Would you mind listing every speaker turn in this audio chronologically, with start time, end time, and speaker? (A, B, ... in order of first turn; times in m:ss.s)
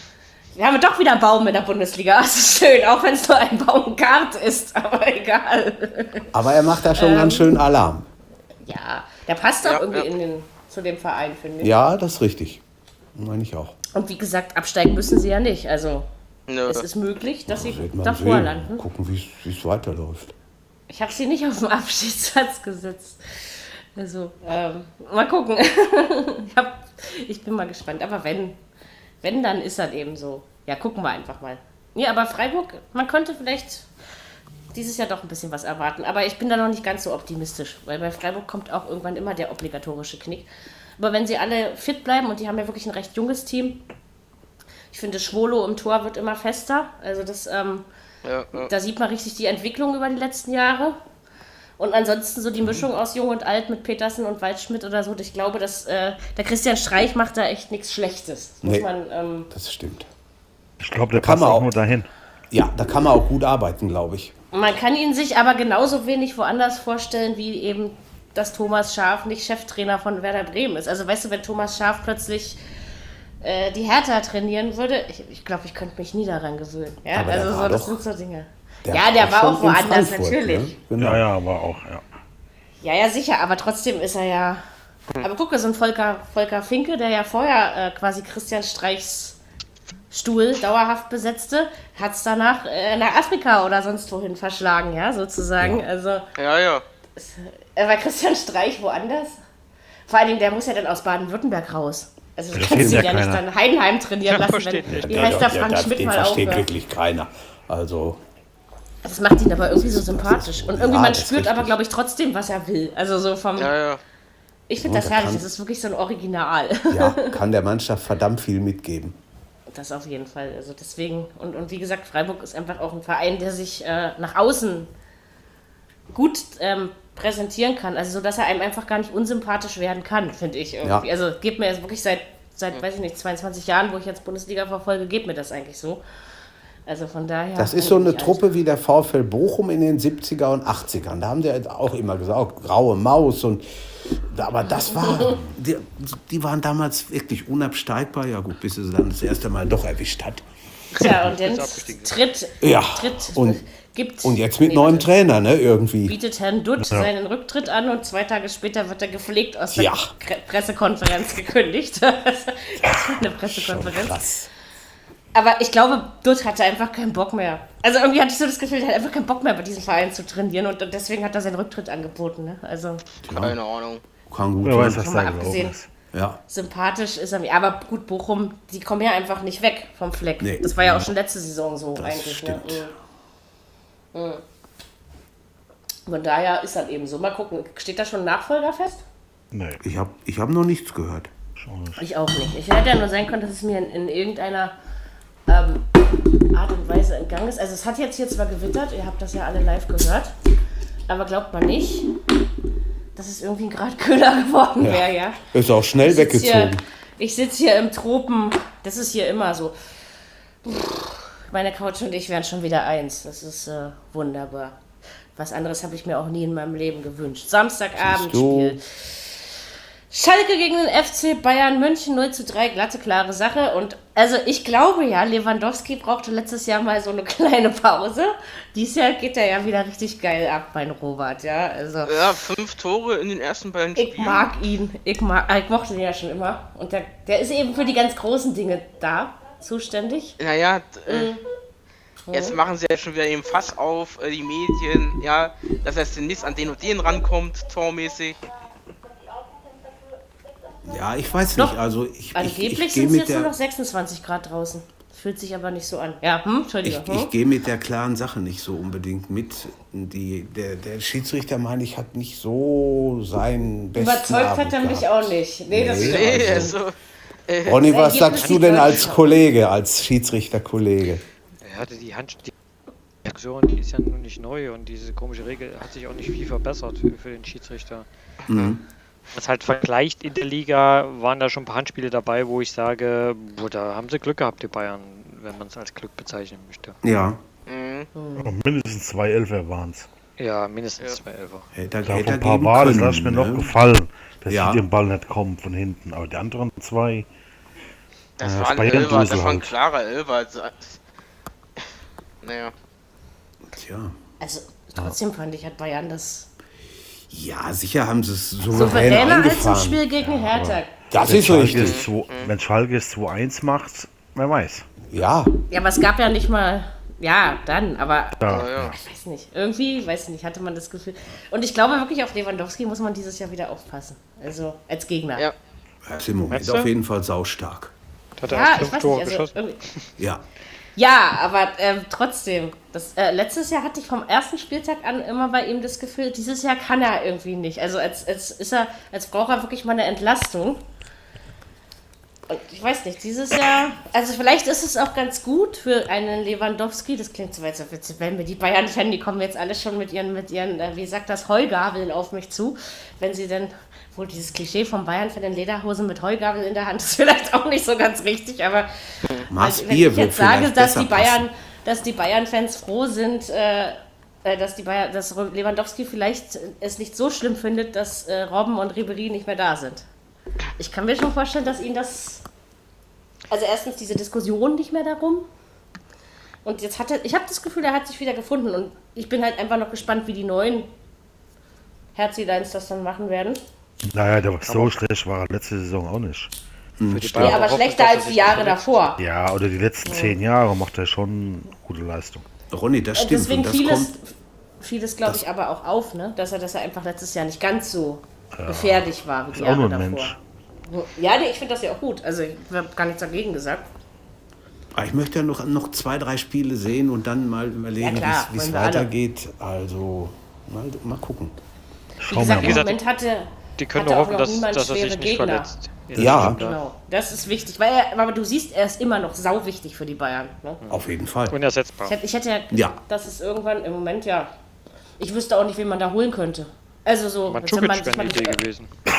0:00.5-0:06.3 A
0:06.3-0:08.1 B
0:06.9-0:07.6 A
0:08.6-0:11.8 A
0:09.6-0:10.1 C
0:11.6-0:12.6 B
0:13.1-0:13.8 B
0:13.9-0:16.1 A
0:16.5-0:16.8 C
0:16.7-0:18.8 A
0:17.5-0:20.3 B
0:20.9-0:23.2 A
0:23.9-0:28.6 A
0:29.2-0:33.8 A
0:34.7-0:43.8 A
0:44.9-0:47.8 A
0:48.2-0:48.7 C
0:48.5-0:51.0 A
0:51.8-0:59.5 A
0:58.6-0:58.9 B
0:59.5-1:00.1 B
1:00.8-1:02.1 D
1:01.1-1:01.7 B
1:02.5-1:04.3 B
1:04.5-1:12.6 A
1:13.4-1:20.7 A
1:17.1-1:18.0 B
1:18.8-1:21.2 B
1:21.0-1:22.0 D
1:22.8-1:24.6 A
1:25.2-1:29.4 A
1:30.1-1:36.2 A
1:36.4-1:36.8 C
1:37.2-1:39.4 A
1:40.1-1:46.7 A
1:42.5-1:43.4 D
1:42.6-1:43.1 B
1:44.2-1:45.2 E
1:44.9-1:48.2 B
1:49.0-1:53.7 A
1:49.7-1:51.8 B
1:53.6-1:54.0 C
1:54.7-1:57.4 A
1:54.8-1:55.4 B
1:56.9-1:59.2 B
1:59.7-2:04.9 A
2:06.1-2:16.0 A
2:16.8-2:18.5 A
2:17.6-2:30.4 B
2:24.9-2:25.4 A
2:30.9-2:35.1 A
2:31.2-2:32.1 E
2:32.6-2:33.6 B
2:34.2-2:36.2 B
2:36.0-2:44.2 A
2:36.8-2:37.1 D
2:39.7-2:40.1 B
2:42.8-2:44.5 B
2:45.3-2:53.0 A
2:53.2-2:53.6 B
2:53.2-2:54.0 C
2:54.3-2:55.2 B
2:54.6-2:55.9 D
2:54.8-2:55.8 A
2:56.1-2:56.4 B
2:56.5-3:02.9 A
3:00.4-3:01.1 B
3:02.0-3:02.9 B
3:04.1-3:04.4 A
3:06.0-3:09.0 A
3:09.5-3:09.8 D
3:09.8-3:11.3 B
3:11.6-3:12.0 D
3:12.0-3:14.7 A
3:15.5-3:15.9 A
3:16.5-3:20.3 A
3:21.1-3:22.1 A
3:23.2-3:25.4 A
3:24.8-3:26.8 B
3:26.0-3:29.7 A
3:30.6-3:34.8 A
3:35.4-3:39.6 A
3:38.0-3:38.8 B
3:40.1-3:52.3 A
3:52.1-3:54.5 C
3:54.0-4:00.4 A
4:00.4-4:01.3 C
4:01.1-4:01.4 A
4:02.3-4:02.6 A
4:02.3-4:08.4 C
4:10.8-4:13.5 B
4:12.3-4:17.3 A
4:16.8-4:26.8 B
4:24.0-4:26.7 A
4:26.0-4:26.9 C
4:27.5-4:27.9 C
4:27.6-4:31.2 B
4:27.8-4:29.3 A
4:31.6-4:32.5 E
4:33.2-4:38.0 E
4:38.5-4:38.8 B
4:39.3-4:47.0 E
4:47.0-4:47.4 B
4:47.7-4:48.1 C
4:48.1-4:48.5 A
4:48.4-4:50.1 D
4:50.4-4:51.7 E
4:51.7-4:53.7 B
4:52.0-4:57.3 D
4:54.5-4:54.9 B
4:58.4-5:01.0 C
4:58.4-4:59.7 D
5:02.4-5:02.7 C
5:03.7-5:04.2 B
5:04.4-5:06.5 A
5:07.3-5:10.0 B
5:08.7-5:10.9 A
5:10.2-5:14.9 D
5:11.1-5:12.0 B
5:11.7-5:12.5 C
5:15.1-5:15.6 B
5:15.7-5:25.5 A
5:18.4-5:19.0 D
5:18.5-5:19.0 C
5:26.0-5:27.9 B
5:26.5-5:26.9 E
5:28.4-5:30.0 E
5:28.5-5:29.8 A
5:31.0-5:40.8 A
5:42.5-6:10.0 A
5:59.5-6:01.4 B
6:10.8-6:12.4 A
6:13.5-6:15.5 A
6:16.6-6:20.9 A
6:22.2-6:23.6 A
6:24.1-6:26.5 D
6:24.6-6:25.0 E
6:27.0-6:27.6 B
6:27.1-6:29.0 E
6:27.3-6:27.6 D
6:27.4-6:29.2 A
6:29.2-6:32.4 D
6:30.0-6:30.3 A
6:32.7-6:34.1 B
6:33.2-6:40.4 A
6:38.6-6:40.4 D
6:40.9-6:43.9 A
6:44.9-6:51.6 B
6:48.0-6:49.1 A
6:52.2-6:52.8 D
6:52.3-6:55.7 A
6:52.4-6:53.0 E
6:53.8-6:56.8 E
6:56.1-6:56.6 B
6:56.2-7:00.8 A
7:00.8-7:02.2 E
7:00.9-7:01.5 B
7:02.0-7:04.5 A
7:02.7-7:03.0 B
7:05.2-7:08.6 A
7:07.4-7:08.9 E